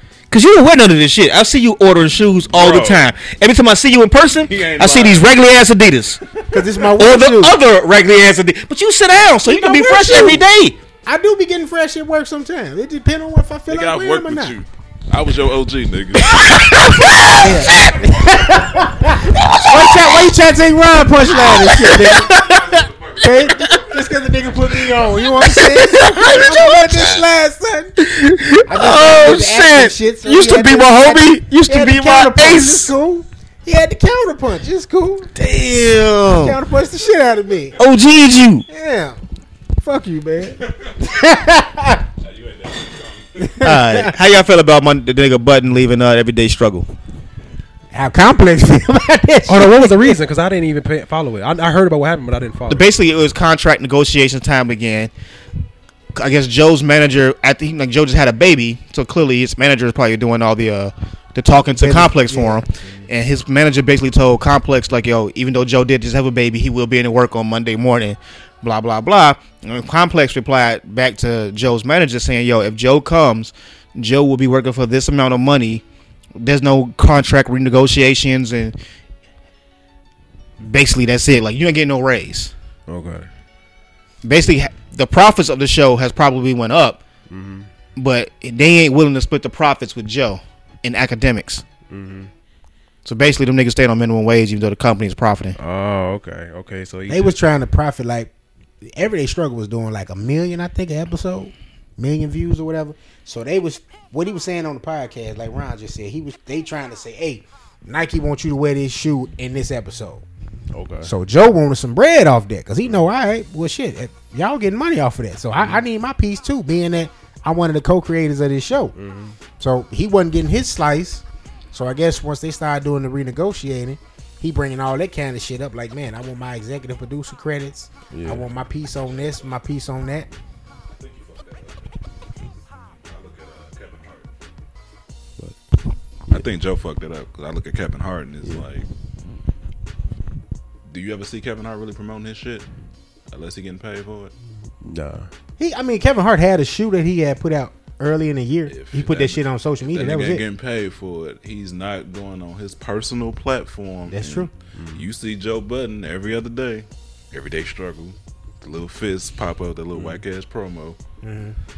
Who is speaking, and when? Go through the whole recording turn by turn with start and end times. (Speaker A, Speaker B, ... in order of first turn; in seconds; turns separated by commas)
Speaker A: 0.3-6.2, Speaker B: 2.5-3.1, Speaker B: 4.4-5.3, Speaker B: 6.3-6.8, Speaker C: 6.5-7.5, Speaker A: 7.0-10.8, Speaker C: 9.5-10.4, Speaker C: 11.0-14.6, Speaker B: 13.7-17.2, Speaker A: 16.2-18.0, Speaker C: 17.4-27.9, Speaker A: 19.3-20.2, Speaker A: 21.3-22.3, Speaker B: 22.4-23.8, Speaker A: 25.4-27.2, Speaker A: 28.0-32.9, Speaker C: 28.6-35.3, Speaker A: 35.3-36.6, Speaker C: 36.3-37.8, Speaker A: 37.8-38.6, Speaker C: 38.7-39.2, Speaker C: 39.8-42.0, Speaker B: 42.2-43.5, Speaker C: 43.4-44.1, Speaker A: 43.6-46.9, Speaker C: 47.9-50.2, Speaker D: 49.5-52.9, Speaker A: 52.7-55.1, Speaker A: 56.1-75.8, Speaker C: 61.8-62.6, Speaker A: 76.3-78.8, Speaker A: 80.6-82.5, Speaker D: 82.9-83.3, Speaker A: 84.2-87.0, Speaker D: 87.3-87.7, Speaker A: 88.0-91.6, Speaker D: 91.9-92.3, Speaker A: 93.0-95.6, Speaker D: 95.6-97.3, Speaker C: 97.1-98.3, Speaker C: 98.8-110.2, Speaker D: 110.7-111.1, Speaker C: 111.0-118.9, Speaker D: 118.9-119.4, Speaker C: 119.6-130.3, Speaker D: 128.1-128.5, Speaker B: 130.9-131.9, Speaker B: 133.0-134.3, Speaker D: 135.4-135.8, Speaker B: 136.3-138.9, Speaker B: 140.9-142.7, Speaker B: 143.3-144.3, Speaker D: 144.8-145.3, Speaker C: 145.6-150.4, Speaker B: 148.7-161.0, Speaker C: 154.1-154.5, Speaker D: 154.7-155.0, Speaker D: 159.9-160.2, Speaker C: 161.2-161.6